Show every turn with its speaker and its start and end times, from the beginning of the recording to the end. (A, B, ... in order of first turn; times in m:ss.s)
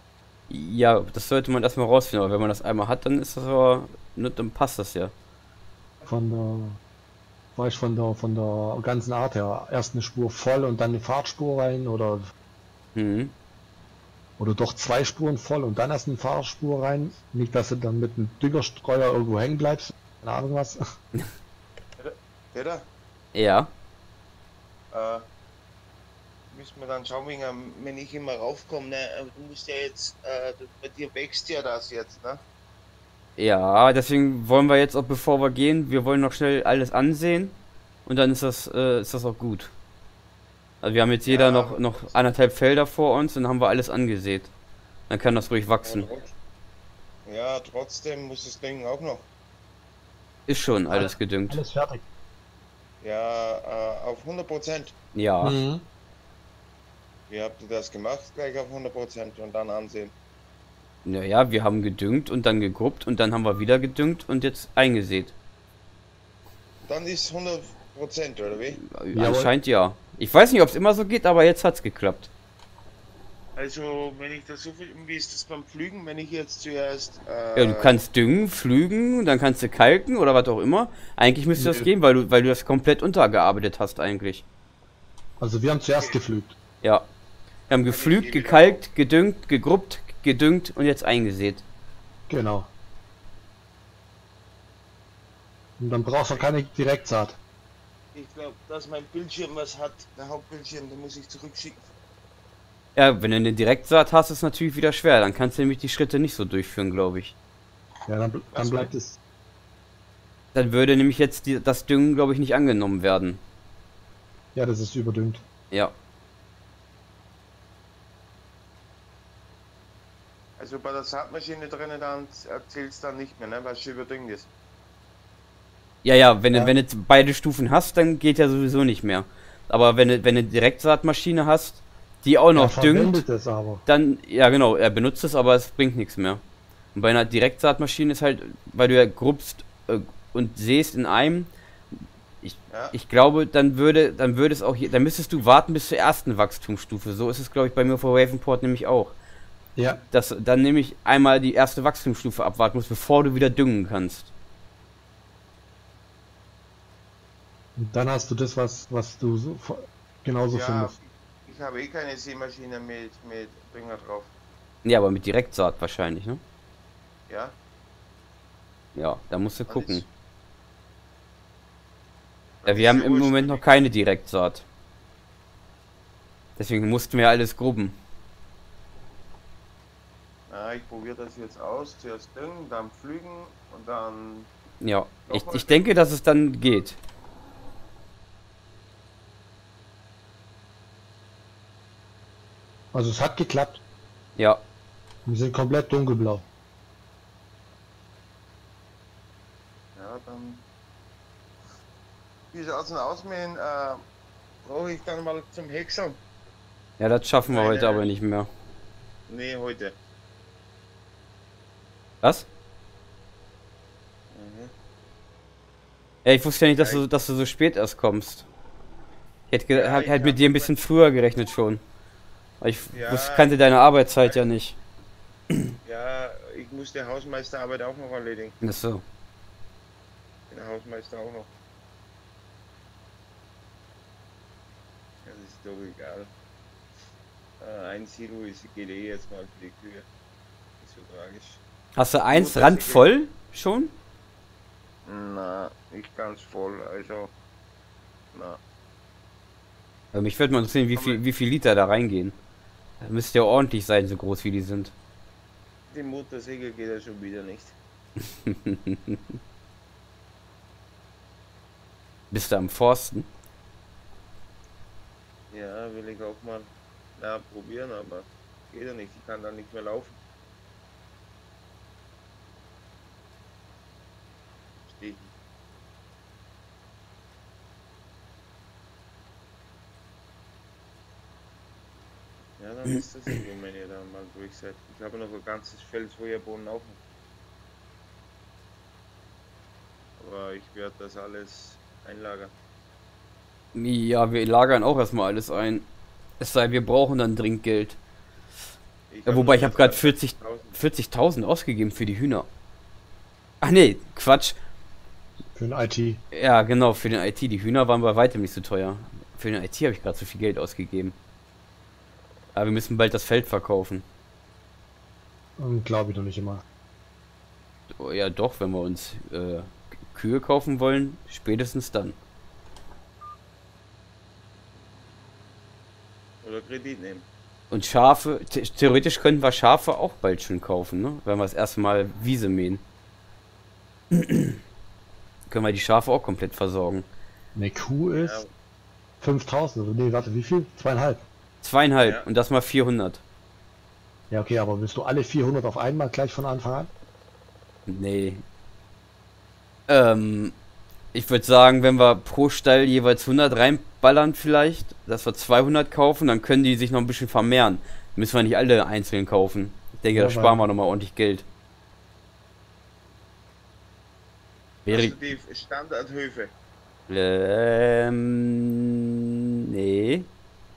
0:00.5-0:05.1 A
0:06.0-0:06.8 B
0:07.6-0:12.3 B
0:12.9-0:13.3 A
0:14.4-0:20.8 B
0:22.0-0:22.9 C
0:23.3-0:23.7 A
0:24.9-0:25.2 C
0:26.5-0:32.4 C
0:33.4-0:39.7 A
0:40.8-0:44.5 A
0:41.2-0:42.1 C
0:45.1-0:46.1 A
0:45.8-0:46.3 C
0:47.2-0:49.3 C
0:50.5-0:51.6 A
0:50.9-0:52.0 B
0:53.0-0:54.9 C
0:55.1-0:55.6 A
0:55.4-0:55.8 B
0:57.3-1:00.1 C
1:01.0-1:05.3 A
1:06.8-1:08.8 C
1:08.8-1:12.3 A
1:09.1-1:09.5 B
1:13.6-1:17.9 C
1:17.6-1:24.4 A
1:21.6-1:21.9 B
1:25.4-1:26.5 B
1:25.9-1:26.2 C
1:27.7-1:31.6 A
1:27.8-1:28.8 C
1:32.3-1:32.7 B
1:35.8-1:37.4 B
1:38.1-1:41.9 C
1:42.9-1:47.3 A
1:48.1-1:49.2 B
1:48.5-1:48.9 C
1:50.5-1:53.4 A
1:54.5-1:55.4 B
2:00.6-2:04.5 C
2:06.0-2:13.2 A
2:12.5-2:13.8 B
2:13.8-2:16.4 A
2:16.9-2:21.5 A
2:22.4-2:29.2 A
2:22.7-2:22.9 C
2:29.8-2:30.0 B
2:30.1-2:34.3 A
2:37.8-2:40.9 B
2:40.5-2:44.3 C
2:44.8-2:46.4 A
2:47.3-2:47.6 C
2:48.9-2:50.0 A
2:49.7-2:50.0 C
2:52.6-2:53.6 C
2:52.7-2:54.6 A
2:56.6-2:58.0 A
3:00.5-3:04.5 C
3:04.8-3:07.0 A
3:05.3-3:05.9 C
3:12.9-3:13.8 B
3:14.4-3:14.6 A
3:15.2-3:16.4 B
3:20.0-3:20.6 C
3:22.5-3:24.0 C
3:24.6-3:26.2 C
3:27.0-3:28.5 A
3:27.5-3:28.1 C
3:29.3-3:30.0 C
3:34.3-3:34.7 C
3:36.2-3:38.4 A
3:36.8-3:37.0 C
3:39.5-3:41.8 A
3:39.7-3:40.7 C
3:42.6-3:44.8 A
3:42.9-3:43.6 C
3:45.8-3:48.5 C
3:48.6-3:49.0 A
3:50.5-3:51.5 C
3:55.2-3:56.3 C
3:57.6-4:00.0 C
4:00.8-4:01.6 C
4:02.0-4:03.9 A
4:02.3-4:03.0 C
4:05.0-4:07.3 C
4:08.3-4:08.6 C
4:10.1-4:12.4 A
4:10.9-4:11.2 C
4:13.0-4:14.9 A
4:15.9-4:17.8 C
4:18.4-4:19.2 A
4:22.3-4:23.3 A
4:25.5-4:30.2 C
4:34.8-4:35.3 C
4:42.6-4:47.0 C
4:50.2-4:52.5 C
4:53.7-4:55.8 A
4:56.4-4:58.0 A
4:59.1-5:00.8 C
4:59.3-5:02.5 A
5:03.6-5:04.6 A
5:05.5-5:06.2 B
5:06.3-5:11.2 A
5:12.5-5:14.0 A
5:15.6-5:16.6 B
5:18.0-5:22.2 A
5:26.4-5:27.2 C
5:27.7-5:32.8 A
5:34.1-5:34.6 A
5:35.5-5:37.1 A
5:37.5-5:38.4 B
5:38.1-5:38.5 C
5:39.2-5:41.2 B
5:41.6-5:43.2 A
5:44.3-5:46.9 B
5:47.9-5:48.4 A
5:49.9-5:50.5 A
5:51.1-6:01.4 A
6:00.1-6:00.6 B
6:04.8-6:05.1 A
6:04.9-6:06.5 C
6:07.1-6:09.0 A
6:09.7-6:10.3 A